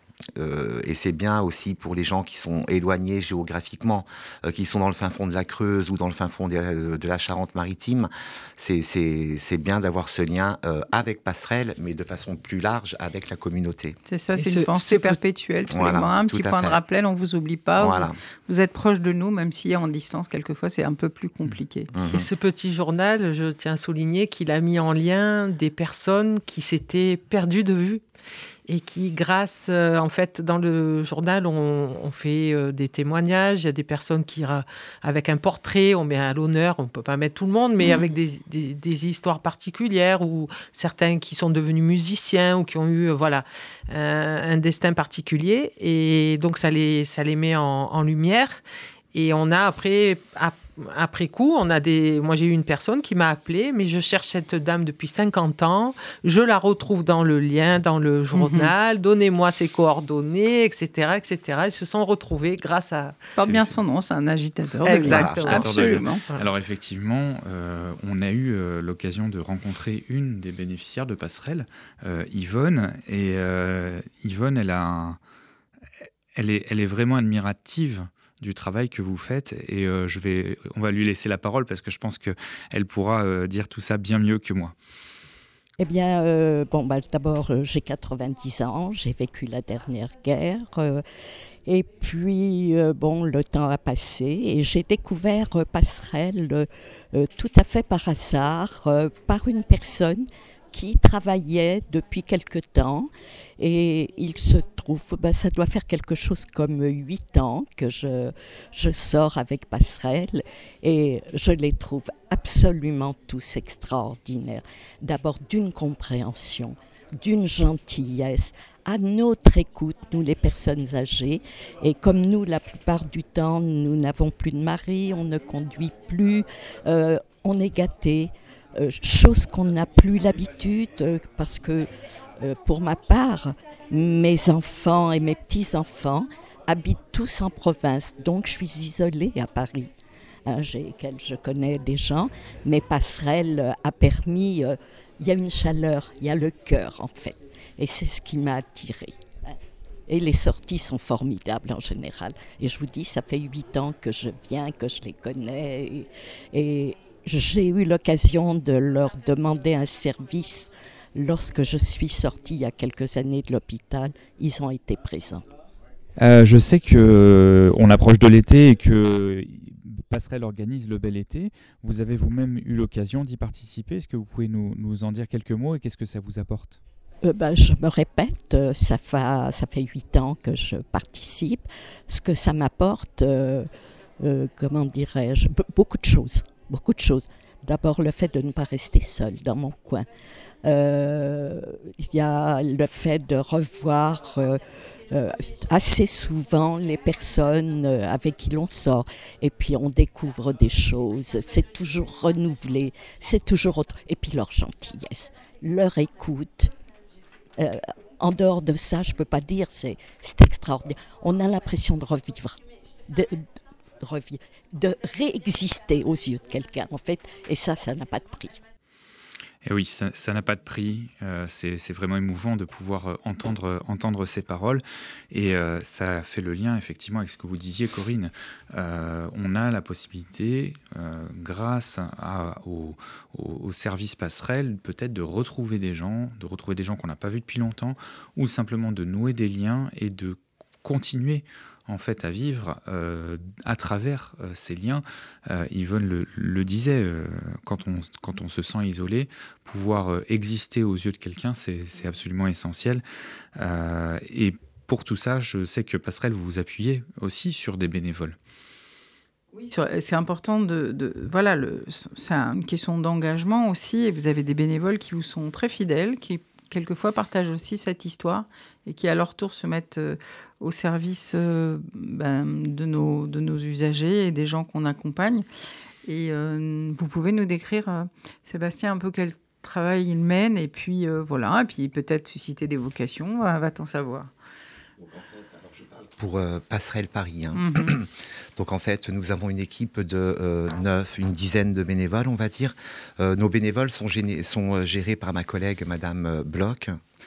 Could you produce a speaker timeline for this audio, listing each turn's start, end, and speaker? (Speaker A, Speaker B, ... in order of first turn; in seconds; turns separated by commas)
Speaker A: 0.4-14.0, Speaker B: 14.1-21.9, Speaker C: 14.4-15.2, Speaker A: 15.7-16.8, Speaker A: 17.8-18.1, Speaker A: 21.9-22.3, Speaker C: 22.1-28.0, Speaker C: 28.7-48.6, Speaker B: 37.8-38.1, Speaker C: 49.1-63.3, Speaker B: 58.3-58.7, Speaker B: 63.4-66.2, Speaker D: 63.4-63.7, Speaker C: 64.8-66.5, Speaker D: 65.0-75.2, Speaker A: 65.0-65.6, Speaker D: 76.3-84.7, Speaker E: 85.8-91.0, Speaker E: 91.7-139.9, Speaker E: 140.5-165.4, Speaker D: 166.2-176.8, Speaker E: 177.2-190.1, Speaker E: 190.6-206.7, Speaker E: 207.6-213.5, Speaker E: 214.0-218.6, Speaker D: 219.7-253.0, Speaker D: 253.6-258.4, Speaker B: 259.5-275.5, Speaker B: 276.1-284.3, Speaker A: 285.0-297.0, Speaker B: 287.6-287.9